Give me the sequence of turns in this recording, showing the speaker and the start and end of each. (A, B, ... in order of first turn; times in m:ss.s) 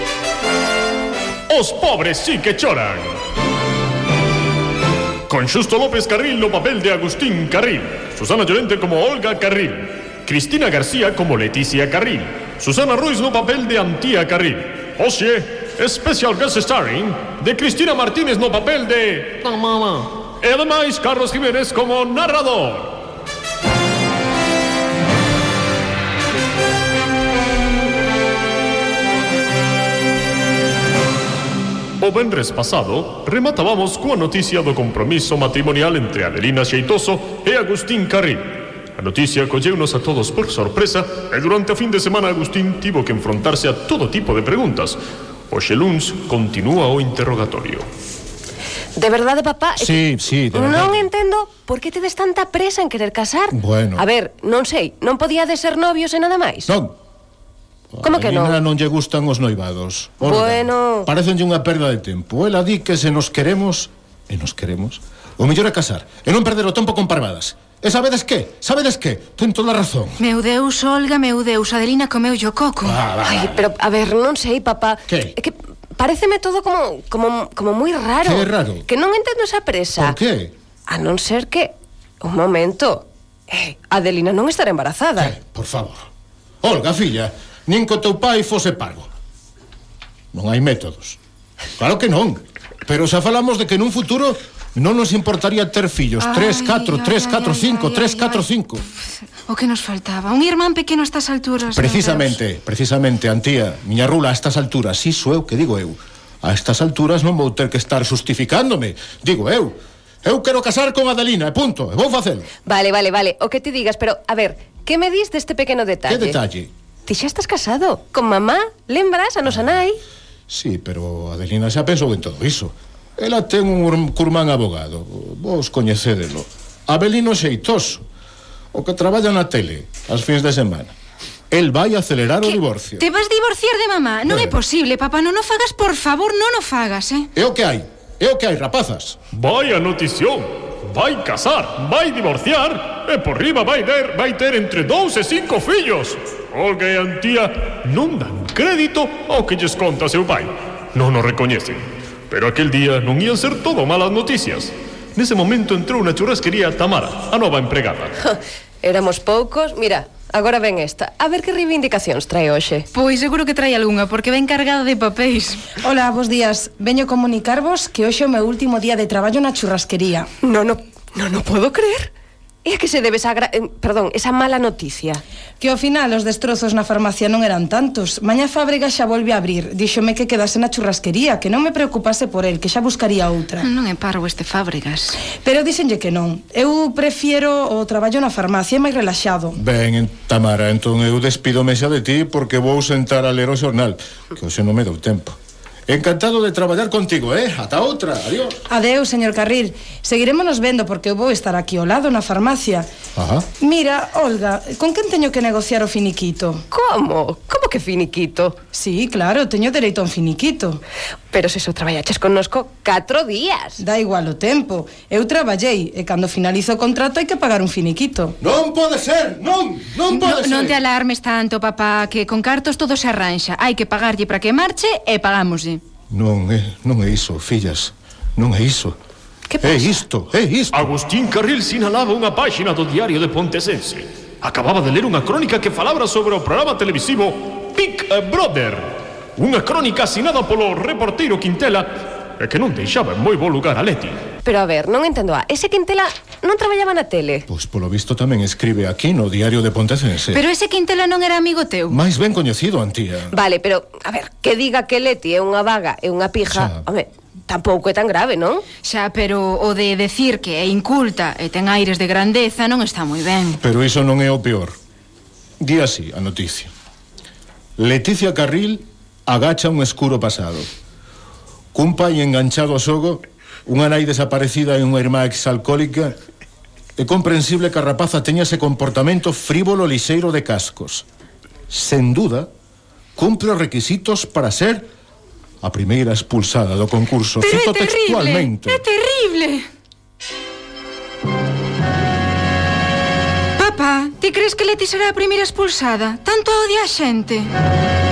0:01.5-0:03.2 A
0:05.3-0:23.0 A
0:32.0-0:45.0 A
0:45.5-0:47.9 A
0:49.0-0:56.7 B
0:49.8-0:51.1 C
0:53.5-0:54.1 C
0:56.7-0:57.0 C
0:57.9-1:10.2 C
0:58.0-0:58.6 B
1:00.2-1:01.1 B
1:10.2-1:13.0 D
1:12.8-1:13.6 C
1:13.2-1:20.2 B
1:15.1-1:15.4 C
1:18.2-1:18.9 C
1:20.0-1:20.5 C
1:20.9-1:25.4 B
1:25.2-1:26.1 C
1:26.6-1:29.1 C
1:30.3-1:31.2 C
1:31.8-1:38.8 C
1:36.2-1:38.5 D
1:39.5-1:42.4 D
1:41.7-1:52.5 C
1:52.6-1:56.4 B
1:56.1-1:56.7 C
1:57.1-2:00.0 B
2:00.5-2:08.0 C
2:08.7-2:11.0 C
2:11.5-2:13.0 C
2:12.6-2:17.3 D
2:14.3-2:14.6 C
2:17.4-2:19.2 C
2:19.3-2:38.3 A
2:38.8-2:42.9 B
2:42.9-2:45.7 D
2:45.8-2:50.3 E
2:50.4-2:52.1 B
2:52.6-2:55.2 B
2:55.6-3:03.7 E
3:03.6-3:05.2 D
3:05.3-3:09.6 E
3:09.5-3:15.4 C
3:15.9-3:18.6 C
3:18.7-3:22.9 E
3:23.2-3:23.5 C
3:23.6-3:26.6 E
3:26.7-3:28.6 B
3:28.7-3:30.8 E
3:31.3-3:33.8 B
3:33.8-3:38.4 E
3:38.4-3:40.8 C
3:40.1-3:45.8 D
3:46.1-3:49.0 C
3:49.5-3:49.9 B
3:49.6-3:50.9 C
3:50.7-4:04.2 A
4:04.4-4:07.5 B
4:07.5-4:10.4 C
4:10.3-4:12.0 D
4:11.9-4:13.3 C
4:13.3-4:18.7 B
4:16.5-4:16.8 C
4:18.8-4:23.6 D
4:23.6-4:24.8 C
4:25.6-4:26.7 C
4:27.8-4:30.7 C
4:31.7-4:36.2 C
4:37.0-4:41.1 C
4:41.7-4:42.5 C
4:43.2-4:44.9 C
4:45.6-4:48.8 C
4:47.4-4:49.6 D
4:53.6-4:57.5 D